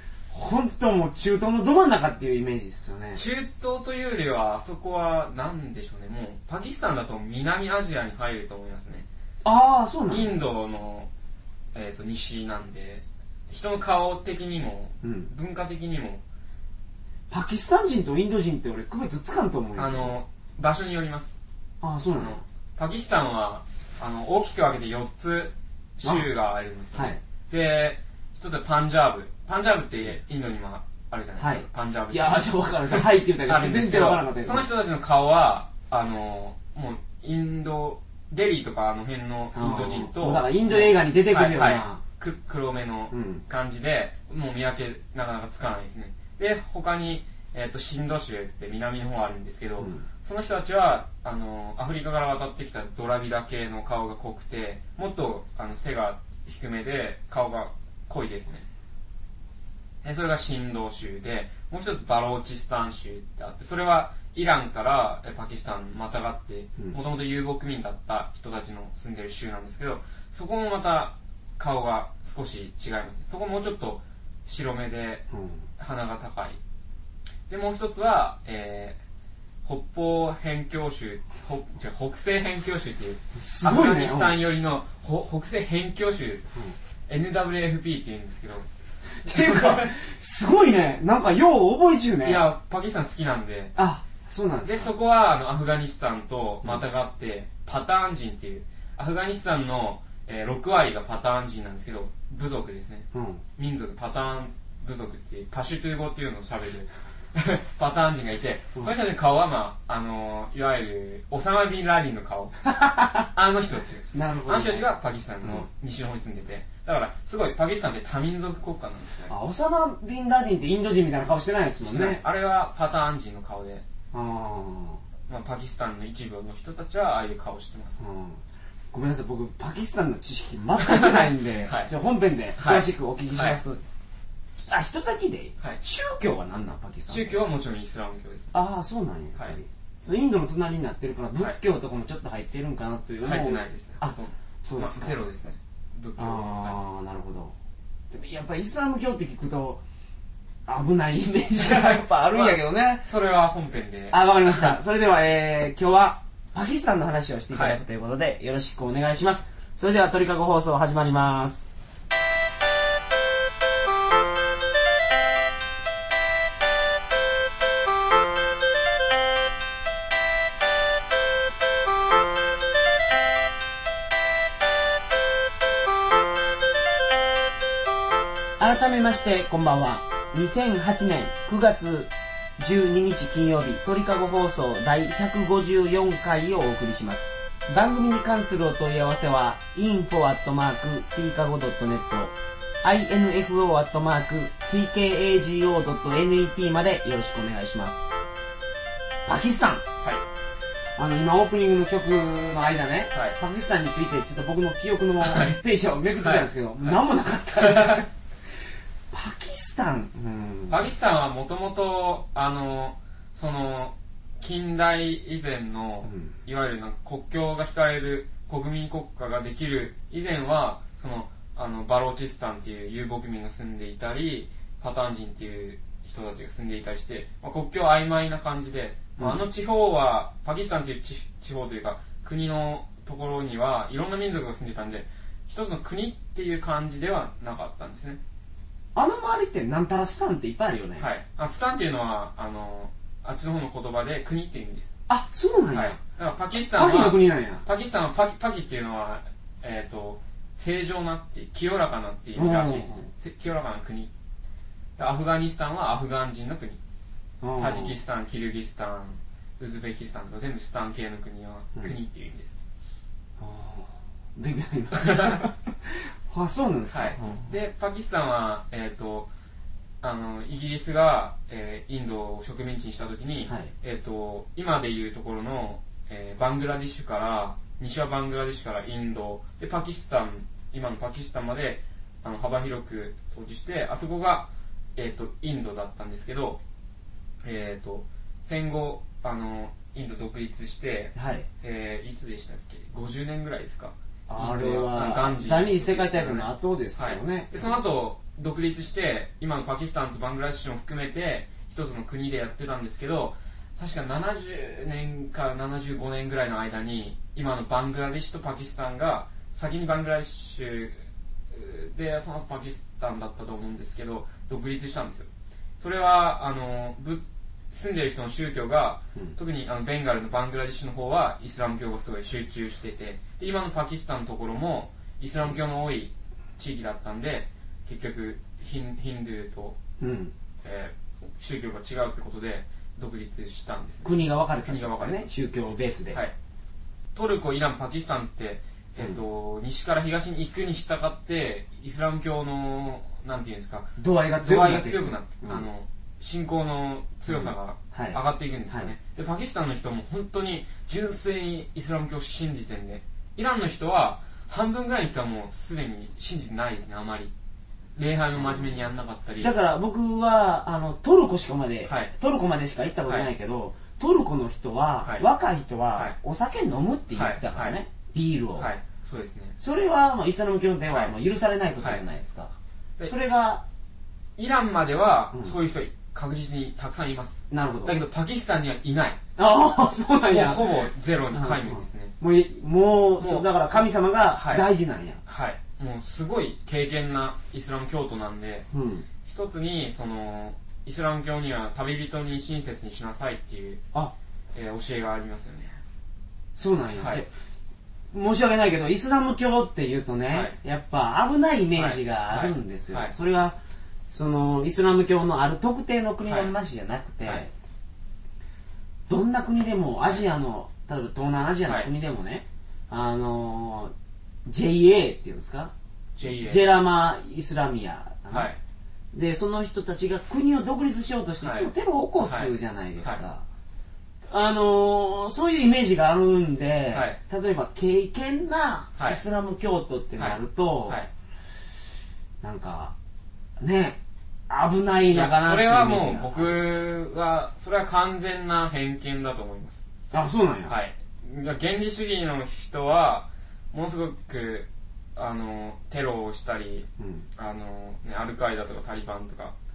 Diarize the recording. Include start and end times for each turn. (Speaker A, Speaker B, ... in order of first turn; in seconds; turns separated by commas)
Speaker A: 0.3-3.2, Speaker B: 3.1-9.1, Speaker A: 9.4-10.4, Speaker B: 10.1-11.1, Speaker B: 11.7-16.2, Speaker A: 15.0-15.3, Speaker A: 17.3-20.1, Speaker B: 19.8-21.4, Speaker A: 21.8-22.4, Speaker B: 22.1-58.6, Speaker A: 26.9-27.2, Speaker A: 31.4-34.7, Speaker A: 39.5-42.0, Speaker A: 43.1-43.4, Speaker A: 49.8-50.0, Speaker B: 60.0-75.2, Speaker A: 75.3-75.6, Speaker B: 75.8-76.6, Speaker B: 77.5-79.0, Speaker B: 79.6-86.5, Speaker A: 83.3-84.3, Speaker B: 87.1-88.7, Speaker A: 89.2-92.4, Speaker B: 89.2-89.9, Speaker B: 92.2-93.7, Speaker A: 93.8-94.9, Speaker B: 94.6-112.5, Speaker A: 103.1-103.4, Speaker A: 112.7-113.3, Speaker B: 113.3-119.3, Speaker A: 114.1-114.9, Speaker A: 119.3-122.2, Speaker B: 121.8-123.8, Speaker A: 124.1-125.0, Speaker B: 125.3-128.0, Speaker A: 128.0-128.4, Speaker A: 128.9-133.8, Speaker B: 130.8-131.9, Speaker B: 132.6-133.6, Speaker A: 134.6-137.3, Speaker B: 137.1-138.5, Speaker A: 138.5-145.2, Speaker B: 143.2-146.8, Speaker A: 146.2-147.5, Speaker A: 148.1-149.8, Speaker A: 150.7-153.1, Speaker B: 151.6-154.8, Speaker A: 154.1-161.7, Speaker B: 157.5-157.8, Speaker A: 178.6-198.1, Speaker A: 199.2-199.8, Speaker A: 201.0-208.1, Speaker B: 205.2-205.6, Speaker B: 206.2-207.0, Speaker B: 207.6-208.0, Speaker A: 209.1-210.8, Speaker B: 210.7-238.2, Speaker A: 216.0-216.3, Speaker A: 229.2-229.4, Speaker A: 238.9-241.1, Speaker B: 241.0-244.9, Speaker A: 245.1-246.0, Speaker B: 245.7-254.1, Speaker A: 246.6-247.6, Speaker A: 252.3-253.1, Speaker B: 255.0-256.8, Speaker A: 257.4-258.0, Speaker B: 257.6-262.6, Speaker A: 263.4-267.5, Speaker B: 265.0-265.4, Speaker B: 266.9-269.3, Speaker B: 270.0-286.6, Speaker B: 287.4-329.8, Speaker A: 291.1-291.4, Speaker A: 294.3-297.8, Speaker A: 330.0-330.3, Speaker B: 330.6-334.1, Speaker A: 334.0-336.2, Speaker B: 334.6-335.3, Speaker B: 337.1-357.3, Speaker A: 344.0-345.7, Speaker A: 347.3-348.9, Speaker B: 357.9-359.5, Speaker A: 358.4-358.8, Speaker A: 359.4-368.7, Speaker B: 361.9-362.1, Speaker B: 367.1-367.8, Speaker B: 368.6-369.5, Speaker A: 369.6-373.6, Speaker B: 370.9-371.1, Speaker B: 374.4-379.2, Speaker A: 377.5-378.0, Speaker A: 379.4-385.2, Speaker B: 380.3-382.1, Speaker B: 383.2-383.8, Speaker B: 384.3-384.6, Speaker B: 385.2-388.7, Speaker A: 388.7-389.1, Speaker B: 389.2-393.8, Speaker B: 394.5-395.8, Speaker A: 396.6-397.3, Speaker B: 397.0-397.2, Speaker A: 398.1-403.6, Speaker B: 401.8-403.1, Speaker A: 404.1-407.5, Speaker B: 406.2-406.5, Speaker A: 409.1-413.9, Speaker A: 414.4-415.7, Speaker B: 416.1-416.7, Speaker A: 416.4-418.5, Speaker B: 418.3-418.6, Speaker A: 419.1-423.4, Speaker B: 421.4-421.7, Speaker B: 422.2-423.2, Speaker A: 424.3-431.0, Speaker B: 426.9-427.2, Speaker B: 430.2-431.1, Speaker A: 432.4-432.9, Speaker A: 433.6-436.6, Speaker B: 435.1-439.9, Speaker A: 440.1-440.7, Speaker B: 440.7-449.5, Speaker A: 447.0-447.2